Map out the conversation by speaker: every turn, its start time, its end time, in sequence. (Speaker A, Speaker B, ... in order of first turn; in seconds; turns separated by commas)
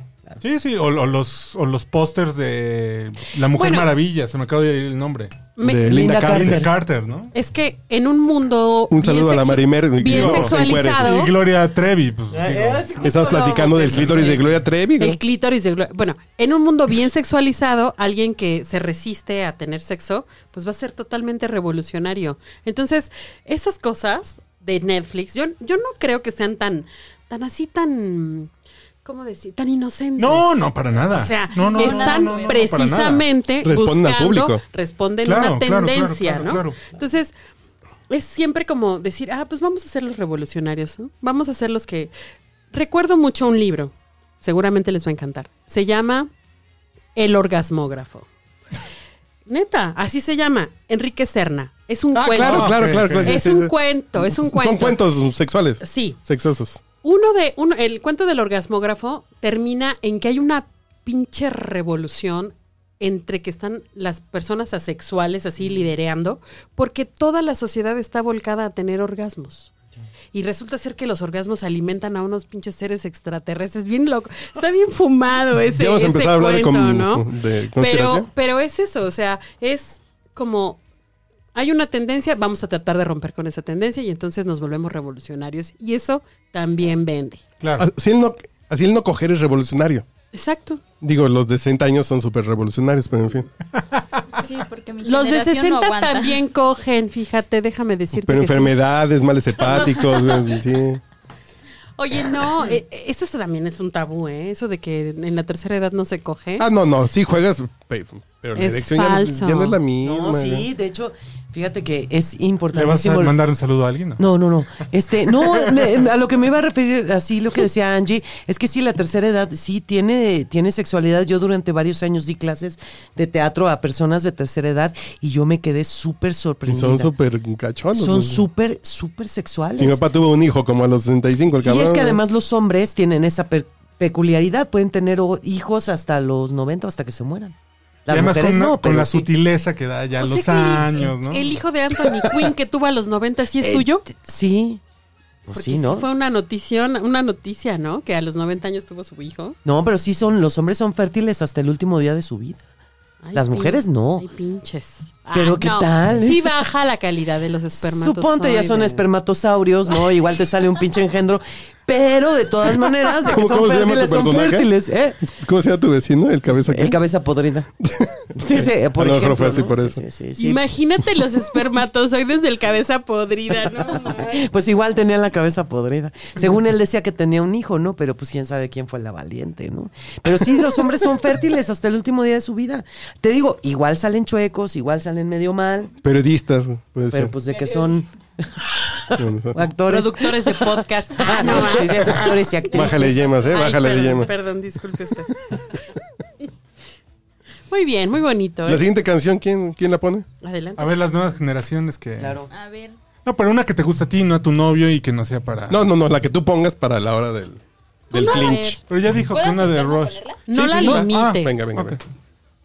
Speaker A: 0.4-5.5, Speaker B: 3.5-3.9, Speaker B: 5.6-5.9, Speaker C: 5.6-6.7, Speaker D: 5.8-6.7, Speaker A: 6.1-7.3, Speaker B: 7.3-11.3, Speaker C: 8.9-11.1, Speaker A: 10.0-12.9, Speaker D: 12.3-14.4, Speaker C: 13.0-15.2, Speaker A: 13.9-14.5, Speaker B: 15.0-28.5, Speaker B: 29.1-37.3, Speaker A: 30.2-33.2, Speaker E: 31.6-32.8, Speaker C: 33.6-34.6, Speaker A: 35.2-36.8, Speaker B: 38.1-42.1, Speaker B: 42.7-46.3, Speaker B: 47.1-48.3, Speaker B: 49.5-55.1, Speaker C: 52.1-56.8, Speaker A: 52.4-53.4, Speaker B: 55.8-56.2, Speaker B: 57.0-69.7, Speaker B: 70.3-80.8, Speaker C: 75.7-78.3, Speaker B: 81.5-87.4, Speaker A: 87.6-87.9, Speaker C: 87.8-90.1, Speaker B: 90.3-90.8, Speaker C: 91.0-93.5, Speaker E: 94.3-96.4, Speaker B: 95.0-98.8, Speaker C: 98.1-101.0, Speaker B: 99.7-100.2, Speaker B: 102.0-106.7, Speaker C: 106.6-110.7, Speaker B: 108.6-109.8, Speaker D: 110.0-113.4, Speaker A: 112.7-114.2, Speaker D: 114.2-127.1, Speaker C: 126.7-128.5, Speaker D: 128.0-130.0, Speaker C: 129.8-132.2, Speaker D: 131.6-137.6, Speaker D: 138.1-139.3, Speaker A: 138.1-141.5, Speaker B: 140.2-144.0, Speaker D: 143.6-144.8, Speaker D: 145.5-146.1, Speaker B: 145.5-149.6, Speaker D: 149.7-152.6, Speaker B: 153.2-159.1, Speaker D: 153.3-154.3, Speaker D: 155.3-156.5, Speaker D: 157.8-165.2, Speaker C: 163.2-164.7, Speaker C: 165.2-167.0, Speaker D: 166.7-167.7, Speaker C: 167.8-170.0, Speaker D: 168.4-170.6, Speaker B: 170.4-174.4, Speaker D: 173.9-185.9, Speaker C: 186.0-187.3, Speaker D: 187.1-193.3, Speaker C: 189.2-189.6, Speaker B: 189.9-195.3, Speaker C: 192.7-194.3, Speaker B: 197.7-198.8, Speaker C: 198.7-200.3, Speaker B: 200.4-201.0, Speaker A: 200.8-202.4, Speaker D: 202.2-202.5, Speaker E: 202.5-203.0, Speaker A: 203.2-205.8, Speaker C: 205.7-208.8, Speaker E: 208.1-208.8, Speaker B: 208.2-208.7, Speaker A: 208.9-212.0, Speaker E: 209.3-210.4, Speaker B: 210.5-211.5, Speaker C: 210.7-212.0